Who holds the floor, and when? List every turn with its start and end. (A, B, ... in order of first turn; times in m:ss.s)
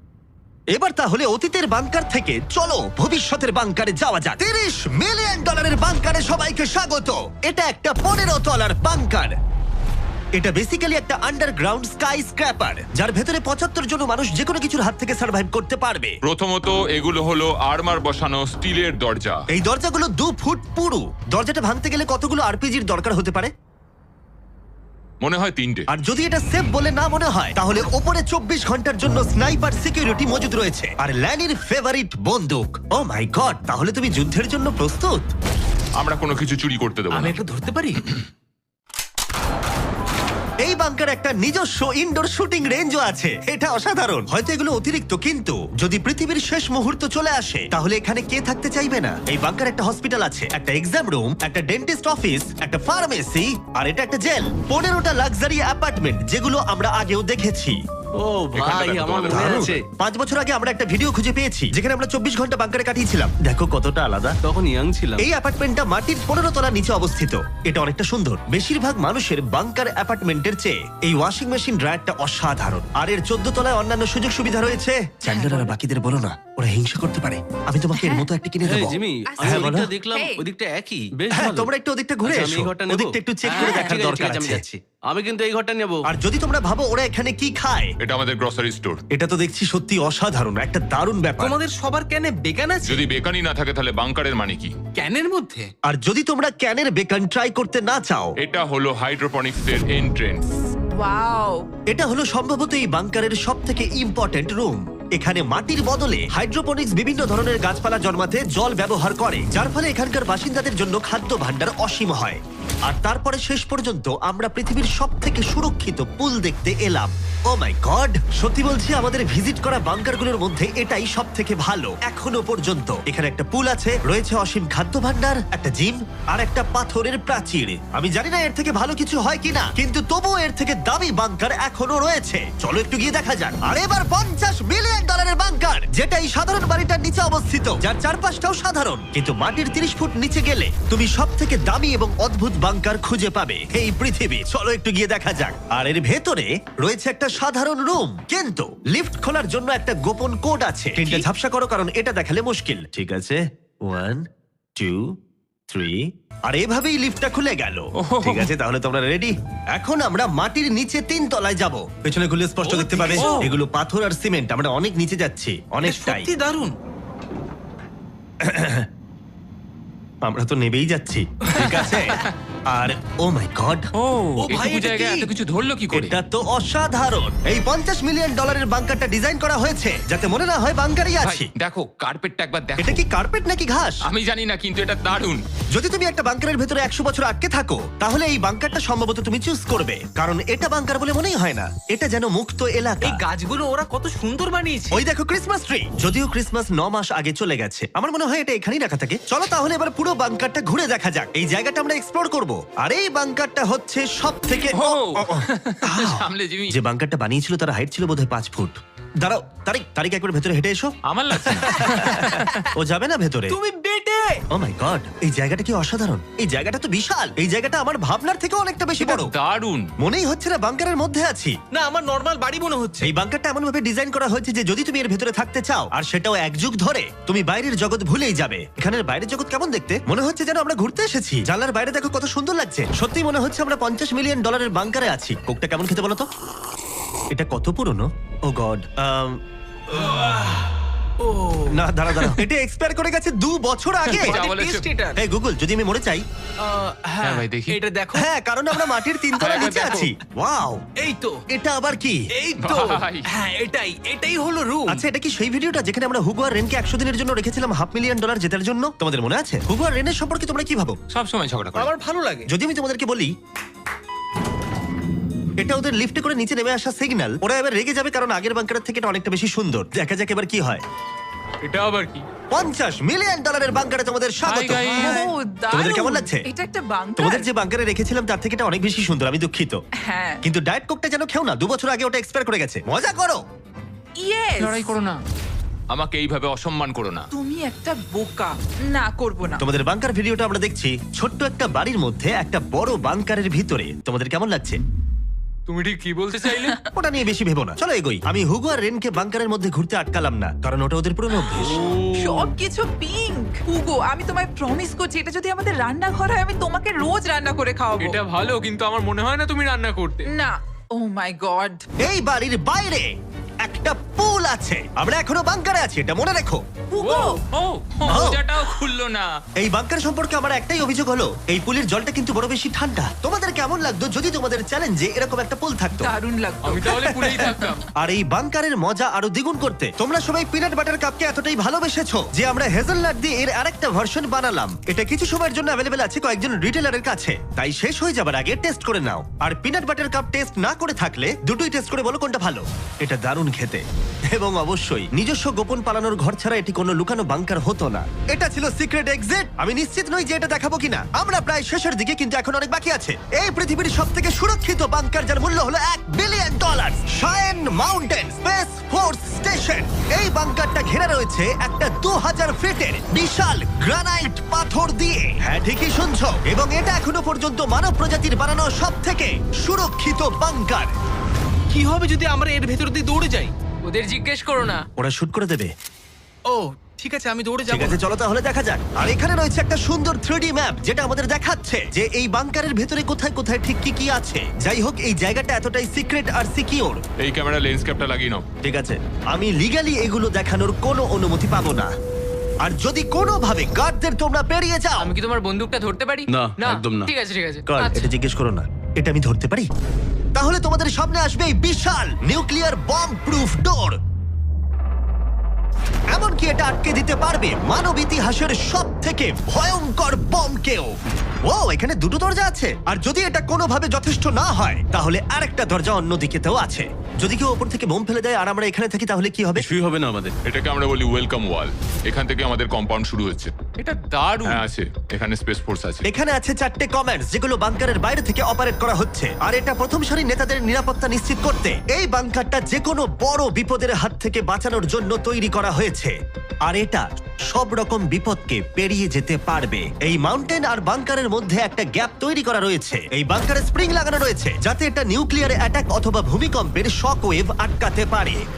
0:00.8-0:09.4 A
0:10.4-0:16.2 A
0:16.2-0:19.4 B
0:19.5-0:23.5 A
0:25.2-0:25.9 B
0:25.9-0:35.3 A
0:36.0-0:37.4 B
0:37.1-0:38.0 C
0:40.6-0:57.8 A
0:58.2-0:59.8 D
0:58.6-0:59.7 B
0:59.3-1:04.4 A
1:04.4-1:05.2 D
1:05.2-1:19.9 A
1:15.3-1:15.7 E
1:17.9-1:18.3 E
1:18.6-1:21.7 D
1:19.3-1:20.4 E
1:21.3-1:24.6 A
1:22.2-1:26.0 D
1:23.6-1:24.0 E
1:26.1-1:27.9 A
1:28.0-1:29.0 B
1:29.1-1:31.6 A
1:31.4-1:33.1 C
1:32.8-1:34.7 B
1:34.9-1:35.7 C
1:35.9-1:38.3 A
1:38.4-1:40.5 B
1:41.0-1:41.7 E
1:41.9-2:34.2 A
2:34.8-2:35.1 A
2:35.7-2:46.3 A
2:38.0-2:38.5 B
2:42.6-2:43.6 C
2:43.1-2:43.5 B
2:45.8-2:46.7 C
2:48.4-2:48.9 A
2:50.2-2:53.9 A
2:51.5-2:52.2 C
2:54.0-2:56.1 B
2:54.4-2:55.3 C
2:55.9-3:01.5 A
3:01.2-3:03.0 B
3:02.8-3:04.0 A
3:04.1-3:05.4 B
3:05.7-3:13.2 A
3:13.0-3:15.0 C
3:14.9-3:30.9 A
3:24.7-3:26.8 B
3:31.1-3:32.6 B
3:31.5-3:33.6 A
3:33.5-3:34.4 C
3:34.5-3:39.3 A
3:39.0-3:39.9 B
3:40.0-3:41.6 A
3:41.7-3:43.2 C
3:43.0-3:56.3 A
3:57.3-3:59.4 A
4:00.0-4:00.6 C
4:01.2-4:02.4 C
4:01.7-4:04.4 A
4:04.1-4:04.9 B
4:04.2-4:05.2 C
4:05.2-4:06.2 A
4:06.6-4:10.1 C
4:07.2-4:07.8 B
4:08.1-4:10.8 A
4:09.4-4:10.1 B
4:11.0-4:11.4 C
4:11.5-4:12.2 A
4:12.3-4:15.1 C
4:12.6-4:13.2 B
4:14.9-4:21.0 A
4:21.1-4:21.9 B
4:21.8-4:22.5 C
4:22.5-4:23.3 A
4:25.6-4:30.8 A
4:32.5-4:36.5 A
4:34.4-4:35.3 B
4:34.7-4:37.5 E
4:37.2-4:39.8 A
4:40.0-4:40.4 E
4:40.4-4:43.4 A
4:44.2-4:45.0 E
4:44.6-4:45.2 B
4:45.9-4:47.3 B
4:47.3-4:49.6 E
4:49.6-4:54.8 A
4:55.7-4:56.8 E
4:55.8-4:56.2 F
4:56.9-5:01.8 A
5:02.1-5:11.9 E
5:08.5-5:10.2 F
5:12.0-5:13.1 A
5:13.6-5:16.6 A
5:16.9-5:17.4 E
5:17.0-5:19.3 B
5:18.1-5:18.4 A
5:19.6-5:26.1 A
5:26.0-5:27.8 E
5:26.6-5:27.8 B
5:26.9-6:10.9 A
6:11.7-6:13.5 C
6:13.8-6:14.9 F
6:15.0-6:15.7 A
6:16.5-6:18.0 C
6:17.7-6:27.0 A
6:27.2-6:28.4 B
6:28.6-6:31.9 A
6:32.6-6:35.1 A
6:35.0-6:38.0 F
6:36.3-6:37.1 D
6:37.7-6:39.7 A
6:40.4-6:44.0 A
6:46.1-6:50.9 A
6:51.5-6:59.6 A
6:59.6-7:00.4 D
7:00.5-7:06.1 B
7:06.0-7:16.1 A
7:16.7-7:28.4 A